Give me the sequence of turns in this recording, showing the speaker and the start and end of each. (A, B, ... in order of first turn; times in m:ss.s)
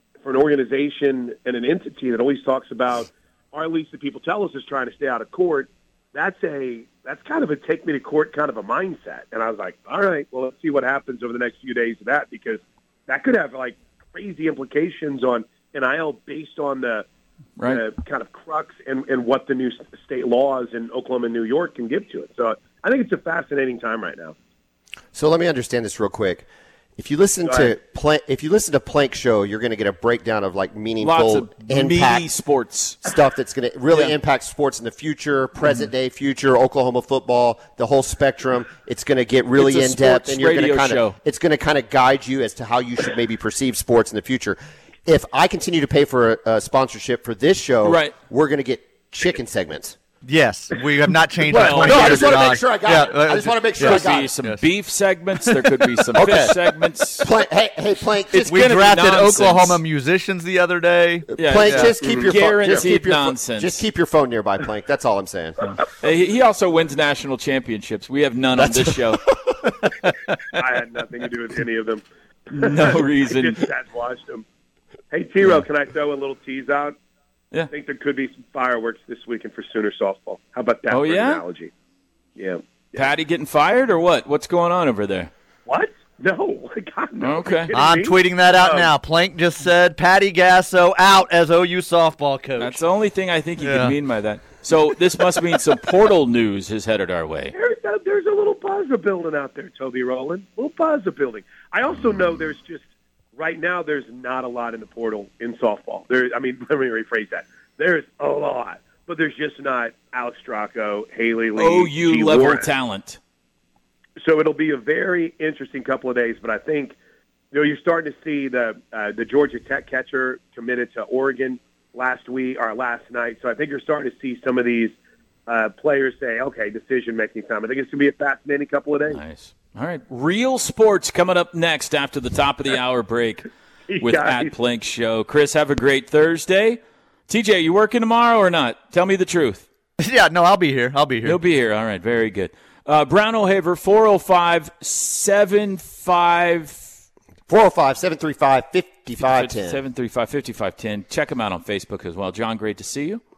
0:00.2-0:17.1 A
0:17.6-0:24.4 A
0:25.1-0:32.3 B
0:27.4-0:27.7 A
0:31.0-0:33.0 C
0:33.0-0:50.0 B
0:39.6-0:41.2 C
0:47.8-0:48.2 C
0:50.2-0:54.6 D
0:51.5-0:52.5 C
0:51.6-0:54.3 B
0:53.8-0:57.3 C
0:55.9-0:56.5 D
0:56.2-0:56.5 B
0:57.2-0:58.7 B
0:58.3-0:59.8 C
0:58.5-1:01.9 D
1:01.4-1:03.8 C
1:01.4-1:05.6 B
1:02.1-1:02.8 A
1:05.9-1:09.2 C
1:08.6-1:09.6 B
1:10.5-1:14.4 A
1:12.5-1:13.6 C
1:15.1-1:17.0 A
1:17.7-1:21.7 A
1:20.9-1:21.4 C
1:22.4-1:23.1 A
1:22.9-1:25.3 C
1:25.7-1:28.9 A
1:27.2-1:27.7 C
1:27.7-1:32.8 D
1:32.6-1:37.5 C
1:33.6-1:33.9 D
1:37.5-1:52.7 A
1:51.6-1:53.2 C
1:54.2-1:57.0 A
1:57.5-2:09.2 A
2:09.1-2:13.5 C
2:13.9-2:14.5 A
2:14.0-2:19.7 C
2:20.0-2:21.4 D
2:21.2-2:26.9 C
2:27.5-2:29.8 B
2:29.2-2:33.2 C